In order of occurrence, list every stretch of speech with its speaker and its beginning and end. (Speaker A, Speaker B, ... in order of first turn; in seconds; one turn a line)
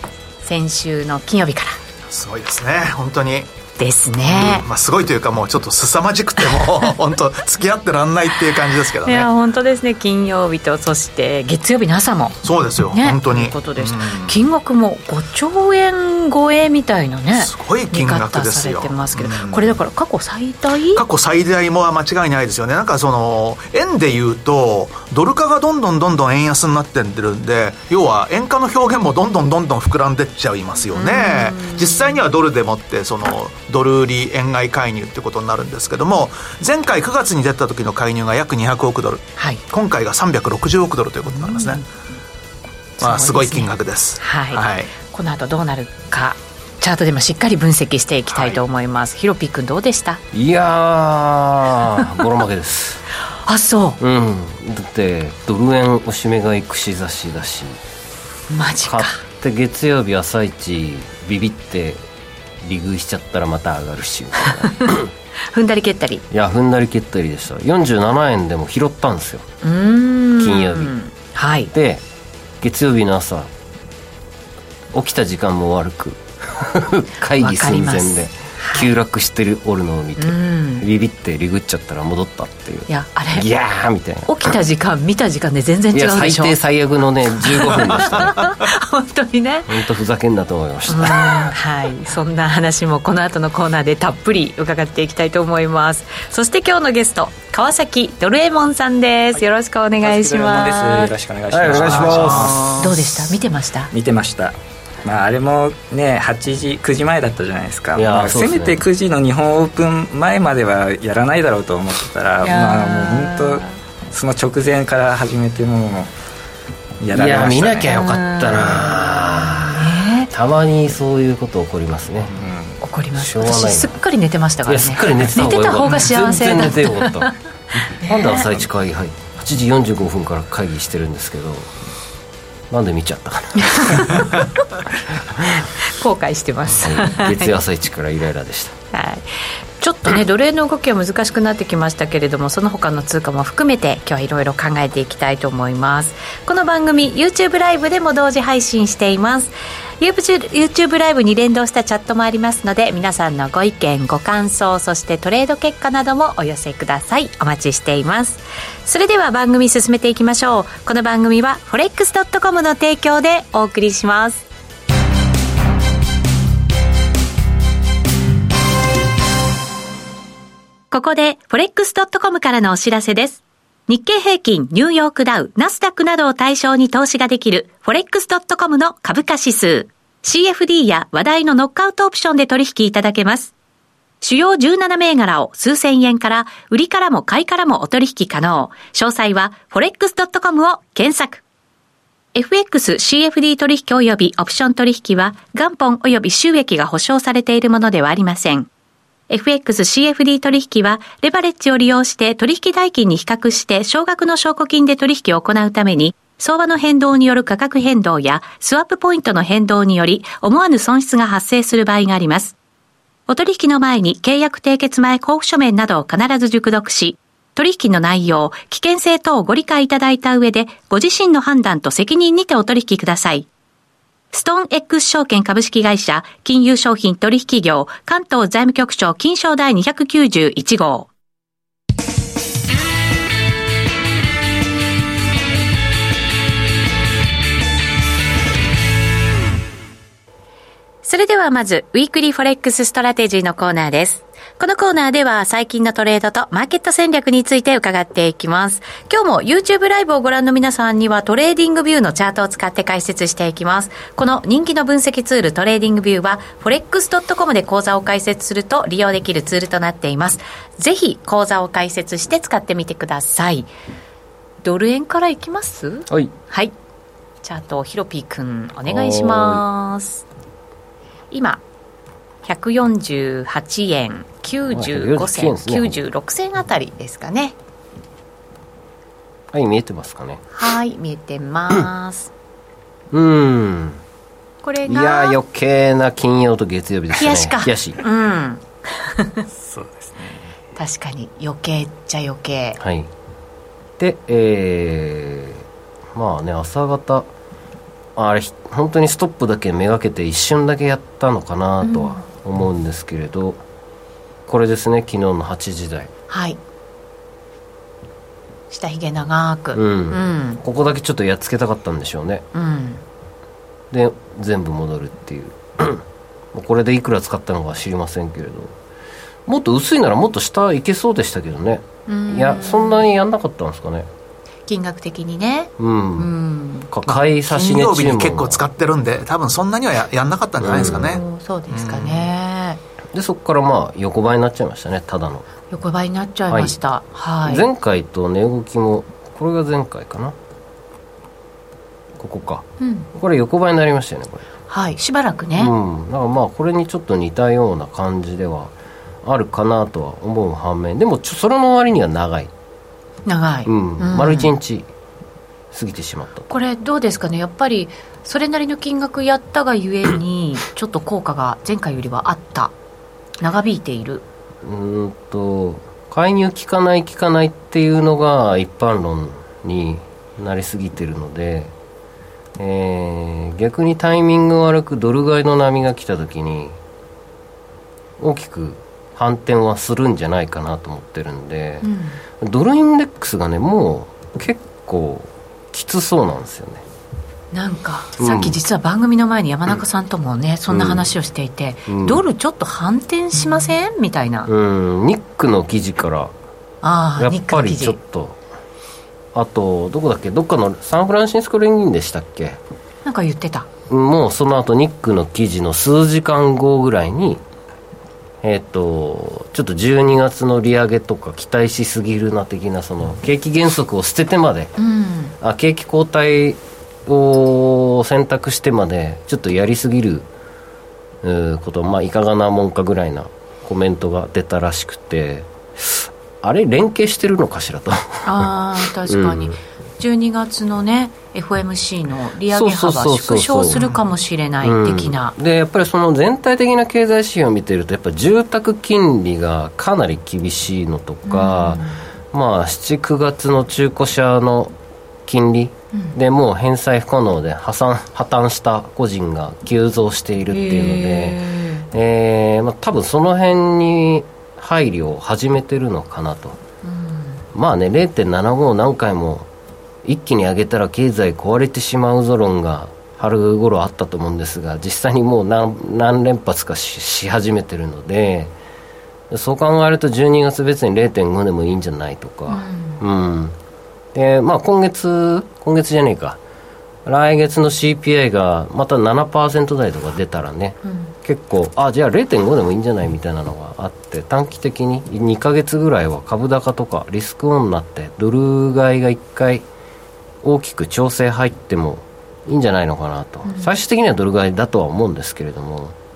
Speaker A: 0.4-1.8
Speaker B: 2.1-3.5
Speaker A: 3.8-4.7
Speaker B: 4.2-9.3
Speaker A: 9.0-12.4
Speaker B: 12.4-14.4
Speaker A: 12.9-21.0
Speaker B: 17.4-19.8
Speaker B: 20.9-41.8
Speaker A: 30.9-32.2
Speaker A: 39.4-39.6
Speaker A: 41.3-41.9
Speaker A: 43.0-50.2
Speaker B: 43.0-44.9
Speaker B: 48.4-48.6
Speaker C: 50.3-53.0
Speaker A: 53.5-54.0
Speaker C: 54.0-57.8
Speaker A: 58.5-59.2
Speaker C: 58.9-62.0
Speaker C: 62.6-65.1
Speaker A: 64.6-65.0
Speaker A: 65.5-66.2
Speaker C: 66.3-69.5
Speaker A: 69.6-71.7
Speaker C: 70.4-71.0
Speaker C: 71.7-72.0
Speaker C: 72.6-73.5
Speaker C: 74.9-84.5
Speaker A: 77.4-78.9
Speaker A: 80.2-80.9
Speaker A: 82.9-83.5
Speaker A: 84.3-86.6
Speaker C: 85.9-88.5
Speaker A: 87.4-89.8
Speaker C: 89.7-91.6
Speaker A: 90.9-101.1
Speaker D: 100.0-102.9
Speaker C: 101.5-103.0
Speaker A: 102.6-103.9
Speaker D: 103.9-116.1
Speaker C: 108.0-108.8
Speaker A: 112.4-113.7
Speaker D: 117.0-117.9
Speaker C: 117.1-122.4
Speaker A: 117.9-120.3
Speaker D: 122.3-122.8
Speaker A: 122.8-128.5
Speaker C: 123.2-124.0
Speaker C: 124.7-127.3
Speaker C: 128.0-131.7
Speaker C: 132.7-134.3
Speaker A: 133.6-134.4
Speaker A: 135.6-137.6
Speaker C: 136.7-138.8
Speaker A: 138.9-164.4
Speaker A: 170.9-183.5
Speaker A: 184.2-191.4
Speaker A: 192.3-198.7
Speaker A: 199.3-212.6
Speaker A: 213.3-223.5
Speaker A: 224.3-231.1
Speaker A: 241.0-263.7
Speaker A: 264.6-266.8
Speaker A: 267.4-270.2
Speaker C: 268.9-269.6
Speaker A: 271.3-271.6
Speaker A: 272.4-277.6
Speaker C: 274.7-276.0
Speaker C: 279.5-280.4
Speaker A: 280.5-282.3
Speaker C: 283.1-284.0
Speaker A: 284.6-285.4
Speaker C: 284.9-288.0
Speaker A: 287.1-289.5
Speaker D: 289.6-290.4
Speaker A: 290.8-292.8
Speaker C: 292.8-293.1
Speaker C: 294.0-297.3
Speaker C: 298.2-303.6
Speaker A: 301.8-302.2
Speaker C: 304.5-306.1
Speaker A: 306.3-306.6
Speaker A: 308.7-310.6
Speaker C: 309.7-312.5
Speaker A: 312.5-313.0
Speaker C: 313.9-318.8
Speaker C: 319.5-324.1
Speaker A: 322.1-323.1
Speaker A: 324.7-326.9
Speaker C: 325.8-326.3
Speaker C: 326.9-328.7
Speaker B: 327.1-332.3
Speaker C: 330.6-331.2
Speaker A: 330.7-332.8
Speaker C: 333.1-335.5
Speaker A: 335.7-337.7
Speaker C: 336.5-336.8
Speaker C: 337.4-340.4
Speaker C: 342.2-344.5
Speaker A: 342.8-343.1
Speaker A: 344.7-345.7
Speaker C: 345.6-352.5
Speaker A: 353.3-354.5
Speaker C: 353.7-354.9
Speaker C: 355.7-356.5
Speaker A: 356.5-362.7
Speaker A: 363.4-364.2
Speaker C: 364.6-371.7
Speaker C: 372.6-376.8
Speaker C: 378.2-381.9
Speaker A: 381.8-382.2
Speaker C: 382.4-386.8
Speaker A: 387.5-394.5
Speaker C: 388.2-388.6
Speaker C: 390.7-391.1
Speaker C: 391.9-392.2
Speaker C: 394.5-396.3
Speaker A: 396.8-398.0
Speaker C: 397.2-398.4
Speaker C: 399.3-402.6
Speaker A: 403.1-403.7
Speaker C: 403.9-407.4
Speaker C: 408.4-414.8
Speaker A: 414.8-415.3
Speaker C: 415.4-420.3
Speaker C: 421.2-428.5
Speaker A: 428.2-435.4
Speaker C: 429.0-429.6
Speaker C: 432.5-433.9
Speaker C: 434.6-444.7
Speaker A: 441.3-442.0
Speaker C: 445.3-456.6
Speaker A: 450.5-451.9
Speaker A: 456.9-457.4
Speaker C: 457.5-459.5
Speaker C: 460.0-468.5
Speaker C: 469.3-473.6
Speaker A: 472.5-473.0
Speaker C: 474.1-476.4
Speaker C: 477.1-489.6
Speaker A: 480.9-481.1
Speaker C: 490.4-496.0